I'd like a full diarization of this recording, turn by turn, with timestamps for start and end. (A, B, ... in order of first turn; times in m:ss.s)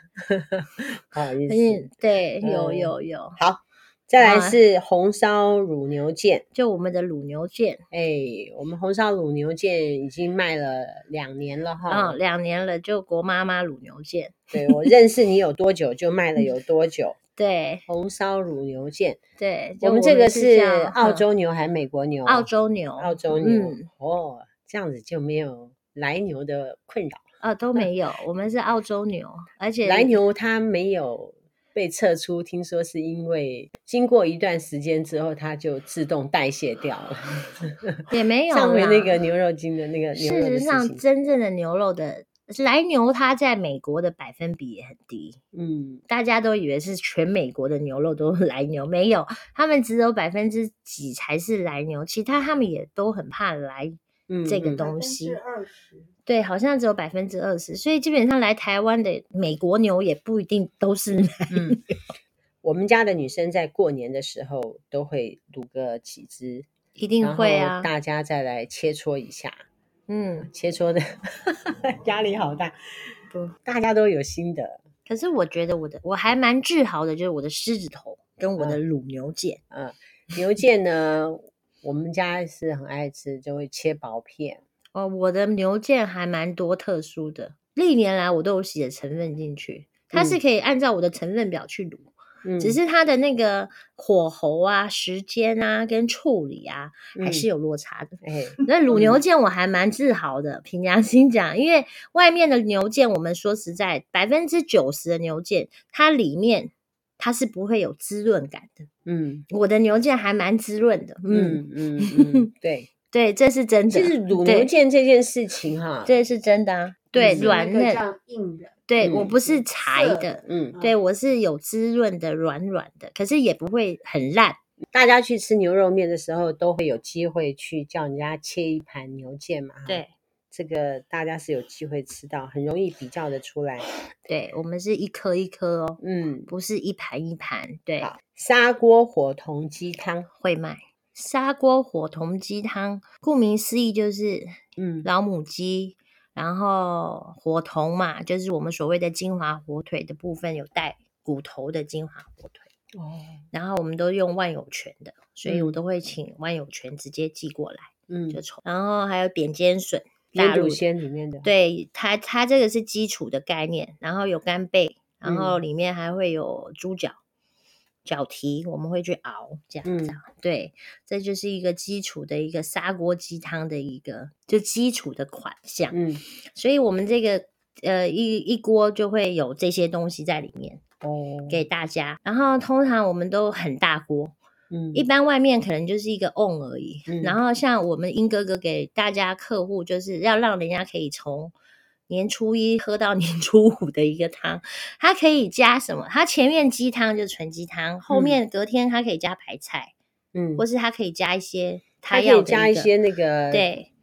0:00.2-0:01.8 A
0:01.5-0:03.4 B
0:02.4-0:06.4 A
0:04.2-0:04.6 B
0:06.5-0:07.8 B
0:07.9-0:12.1 A
0:11.9-0:14.9 B
0:14.5-0:17.2 A
0:17.4-0:17.8 B
0:17.9-0:19.2 A
0:19.4-0:21.2 B
0:19.8-0:27.2 A
0:22.2-0:23.9 B
0:27.4-0:30.2 B
0:29.8-0:41.0 A
0:38.1-0:39.2 B
0:40.1-0:45.4 B
0:45.5-0:46.0 A
0:46.1-0:55.4 B
0:54.3-0:54.8 A
0:54.8-0:56.1 C
0:56.2-1:01.8 B
1:01.5-1:01.8 A
1:02.6-1:06.6 A
1:07.0-1:07.9 B
1:07.2-1:09.6 A
1:10.1-1:10.5 B
1:10.5-1:12.7 A
1:13.6-1:14.8 A
1:15.1-1:19.6 B
1:19.7-1:24.6 A
1:24.9-1:48.9 B
1:30.1-1:30.4 A
1:32.4-1:32.8 A
1:37.1-1:37.4 A
1:38.2-1:39.2 A
1:49.0-1:49.4 A
1:49.5-1:52.5 B
1:51.3-1:52.9 A
1:53.1-1:54.7 B
1:53.9-1:56.1 A
1:56.0-1:58.0 B
1:57.2-1:57.5 A
1:57.2-2:01.0 C
1:58.9-2:04.6 B
1:59.0-1:59.3 A
2:00.4-2:00.8 A
2:04.9-2:13.8 A
2:09.8-2:10.1 B
2:14.2-2:18.1 B
2:16.0-2:16.5 A
2:18.0-2:20.3 A
2:20.4-2:32.7 B
2:24.8-2:25.1 A
2:32.9-2:33.4 A
2:33.5-2:40.8 B
2:35.4-2:35.8 A
2:38.1-2:38.4 A
2:40.3-2:41.5 A
2:41.4-2:47.2 B
2:45.2-2:45.6 A
2:48.0-2:56.0 B
2:49.8-2:50.2 A
2:55.9-2:56.2 A
2:56.5-3:00.8 B
3:01.0-3:01.6 A
3:01.5-3:04.3 B
3:04.7-3:05.0 A
3:04.9-3:11.5 B
3:07.1-3:07.4 A
3:12.1-3:19.9 B
3:18.1-3:18.4 A
3:20.3-3:20.6 A
3:20.6-3:22.9 B
3:22.1-3:23.7 A
3:23.5-3:23.9 B